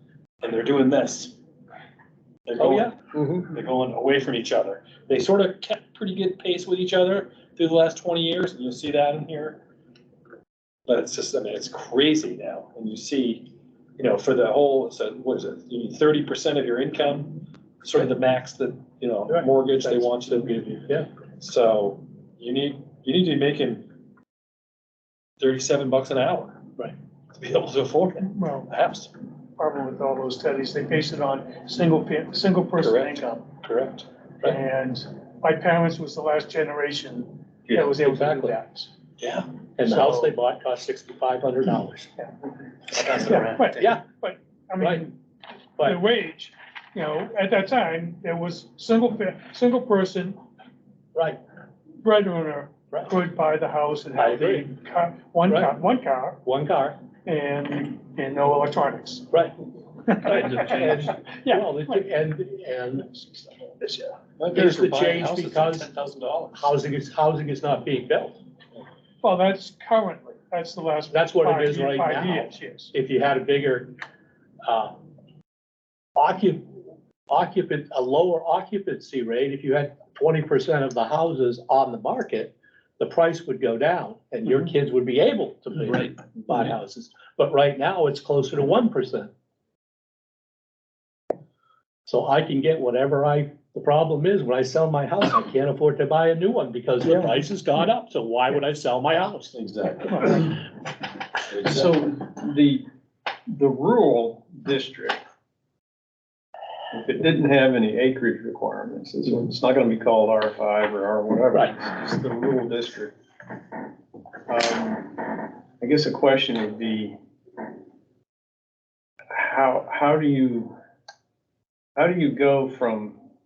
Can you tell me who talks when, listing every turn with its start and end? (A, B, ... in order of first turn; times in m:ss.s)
0:00.4-0:01.4 A
0:02.5-0:09.6 A
0:02.6-0:02.9 B
0:10.9-0:23.9 A
0:19.3-0:20.1 B
0:25.4-0:26.6 A
0:27.4-0:29.1 A
0:28.2-0:28.7 C
0:29.6-0:33.5 C
0:32.8-0:34.1 A
0:34.4-0:38.9 C
0:38.0-0:38.6 B
0:39.2-0:39.5 A
0:39.8-0:42.1 B
0:39.8-0:40.3 C
0:43.2-0:45.1 C
0:43.3-0:44.0 B
0:44.8-0:45.1 B
0:45.8-0:50.4 C
0:51.2-0:51.4 B
0:52.0-0:56.4 C
0:52.9-0:53.2 B
0:54.2-0:54.7 B
0:55.5-0:55.8 B
0:56.4-0:57.0 B
0:57.2-0:59.3 C
1:00.1-1:00.5 C
1:00.2-1:01.2 A
1:00.2-1:04.0 B
1:01.2-1:02.0 C
1:04.4-1:06.7 A
1:04.5-1:05.9 B
1:06.5-1:08.4 B
1:09.2-1:12.9 C
1:11.1-1:14.0 B
1:14.6-1:15.0 B
1:16.2-1:16.7 B
1:17.3-1:29.3 B
1:25.9-1:26.1 A
1:32.1-1:39.6 B
1:39.5-1:40.6 A
1:41.5-1:41.9 A
1:41.6-1:42.8 D
1:43.5-1:45.2 D
1:46.9-1:53.1 D
1:54.5-1:57.2 D
1:59.3-2:00.7 D
2:02.0-2:03.2 D